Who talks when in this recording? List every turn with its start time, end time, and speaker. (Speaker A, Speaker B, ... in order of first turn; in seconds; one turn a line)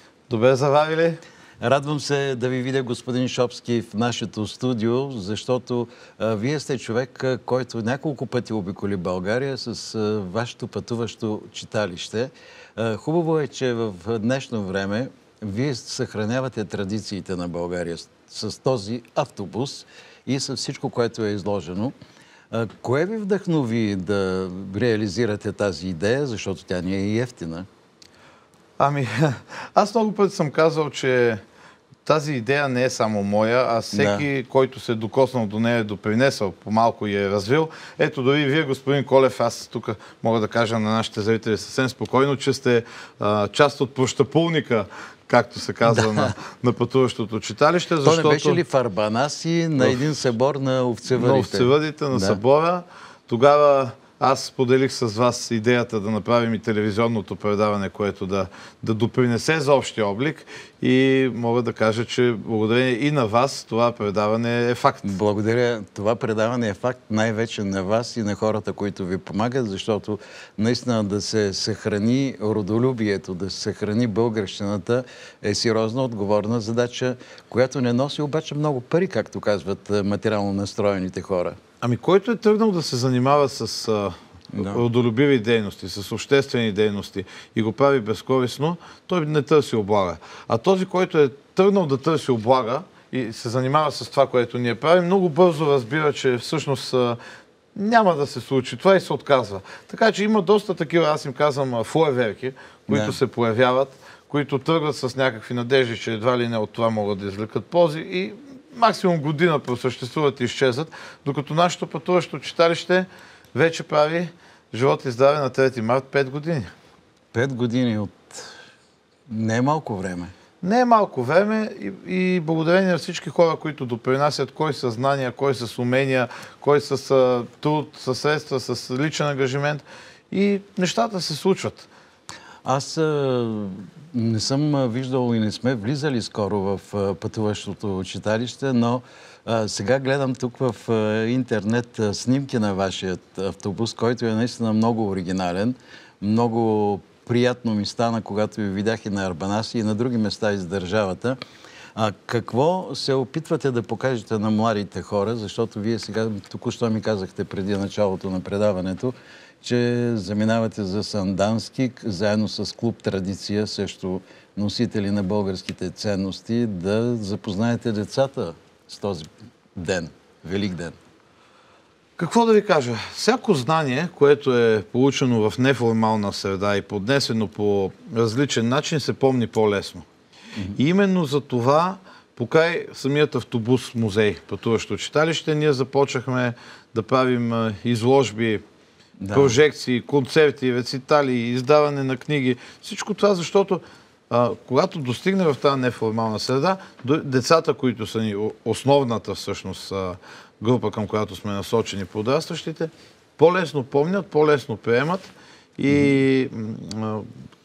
Speaker A: 0.3-1.2
Speaker B: 1.6-21.9
Speaker B: 22.5-27.7
Speaker A: 28.8-31.4
Speaker A: 32.0-48.6
Speaker B: 33.9-34.2
Speaker B: 48.0-52.4
Speaker A: 51.1-65.1
Speaker B: 65.0-81.6
Speaker A: 81.8-97.2
Speaker B: 84.5-84.8
Speaker A: 97.8-116.7
Speaker B: 102.9-103.2
Speaker B: 117.3-118.5
Speaker B: 119.3-120.3
Speaker A: 120.6-131.9
Speaker B: 132.6-151.4
Speaker B: 151.9-171.0
Speaker A: 172.2-180.1
Speaker A: 180.8-188.6
Speaker B: 189.2-189.6
Speaker A: 189.3-207.3